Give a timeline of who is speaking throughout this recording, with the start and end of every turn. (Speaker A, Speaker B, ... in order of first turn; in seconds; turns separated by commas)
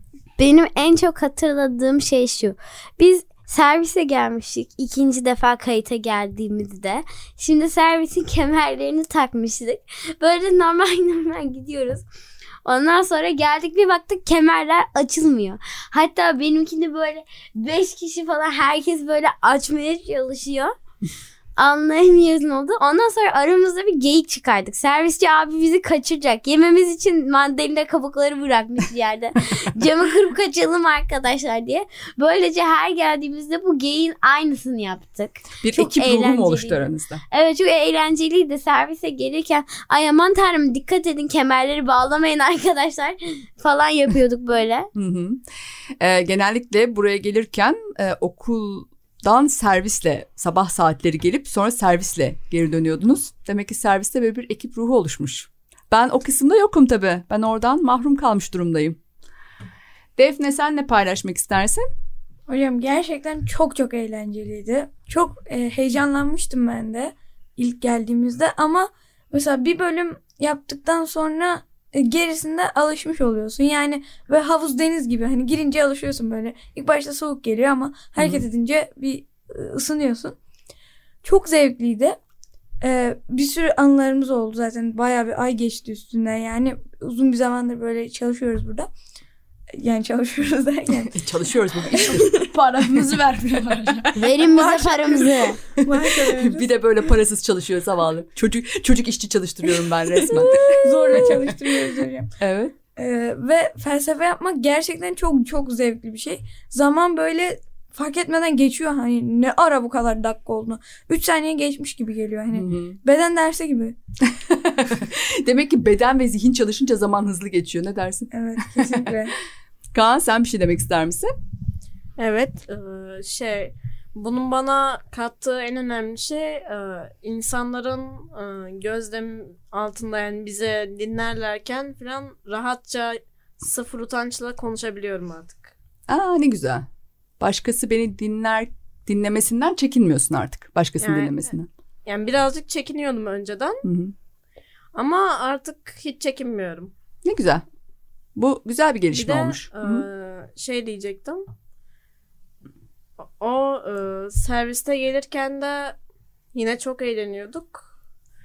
Speaker A: 0.4-12.0, Speaker A: 12.6-20.7, Speaker A: 21.6-44.9, Speaker B: 35.6-37.2, Speaker B: 44.9-45.4, Speaker B: 46.0-59.0, Speaker B: 60.2-61.8, Speaker C: 62.5-80.4, Speaker B: 78.2-78.4, Speaker C: 81.2-82.2, Speaker C: 82.8-88.9, Speaker C: 89.7-91.2, Speaker B: 91.0-92.4, Speaker C: 91.9-92.2, Speaker D: 91.9-94.1, Speaker B: 94.0-94.6, Speaker A: 94.2-95.6, Speaker C: 94.5-96.7, Speaker B: 95.8-101.5, Speaker C: 100.2-102.3, Speaker B: 102.4-102.7, Speaker C: 103.0-114.0, Speaker B: 112.5-113.0, Speaker B: 114.2-119.1, Speaker C: 118.3-119.3, Speaker B: 119.9-121.3, Speaker E: 122.2-135.7, Speaker B: 136.1-136.9, Speaker B: 137.4-141.7, Speaker E: 141.0-141.5, Speaker E: 142.1-143.8, Speaker B: 143.8-144.1, Speaker E: 144.9-146.9, Speaker B: 147.2-147.6, Speaker B: 148.3-150.1, Speaker E: 149.1-151.4, Speaker E: 153.4-156.0, Speaker E: 156.5-157.9